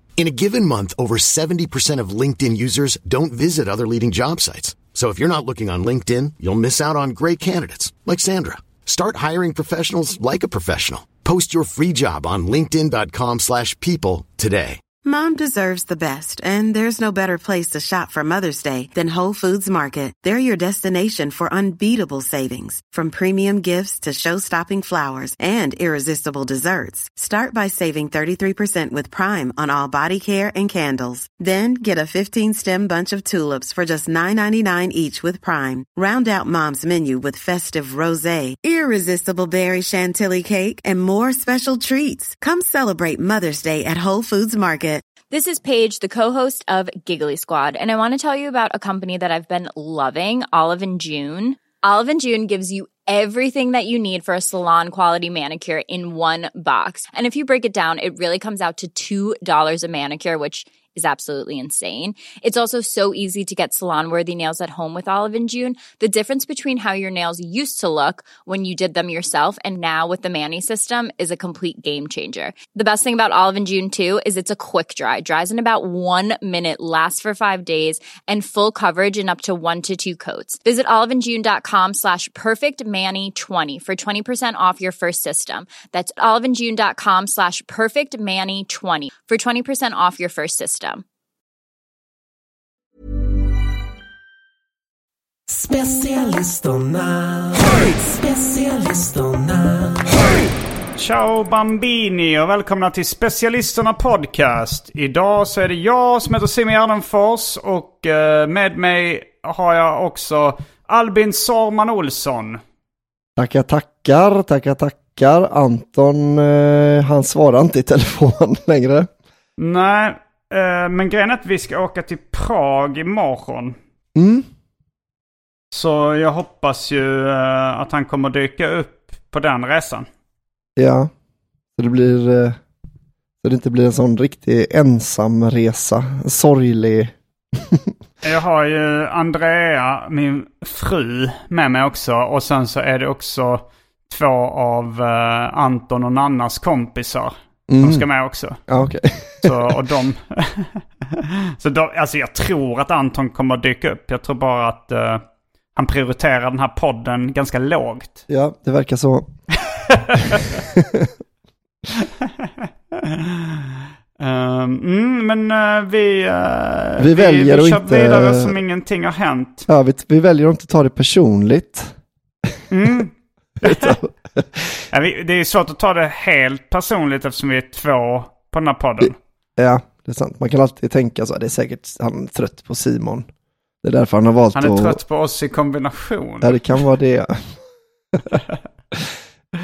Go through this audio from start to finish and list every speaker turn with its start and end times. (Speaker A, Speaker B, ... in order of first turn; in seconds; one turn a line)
Speaker A: 0.2-14.8
Speaker B: 15.0-45.0
Speaker C: 45.3-91.0
Speaker D: 95.5-100.1
Speaker E: 101.0-112.6
Speaker F: 113.4-119.1
Speaker E: 119.6-123.8
Speaker F: 124.1-124.5
Speaker E: 125.7-130.1
Speaker F: 130.8-131.1
Speaker F: 131.8-132.6
Speaker F: 133.4-137.9
Speaker E: 138.2-148.6
Speaker F: 147.7-148.0
Speaker F: 148.7-149.8
Speaker E: 149.4-155.2
Speaker E: 155.7-158.2
Speaker F: 158.3-159.3
Speaker E: 159.7-160.6
Speaker F: 160.5-161.1
Speaker E: 162.4-169.7
Speaker F: 167.0-168.6
Speaker F: 169.7-171.9
Speaker E: 172.7-174.0
Speaker F: 173.6-174.8
Speaker E: 174.9-179.1
Speaker F: 179.0-183.3
Speaker F: 183.8-185.0
Speaker E: 184.5-186.6
Speaker F: 186.4-187.6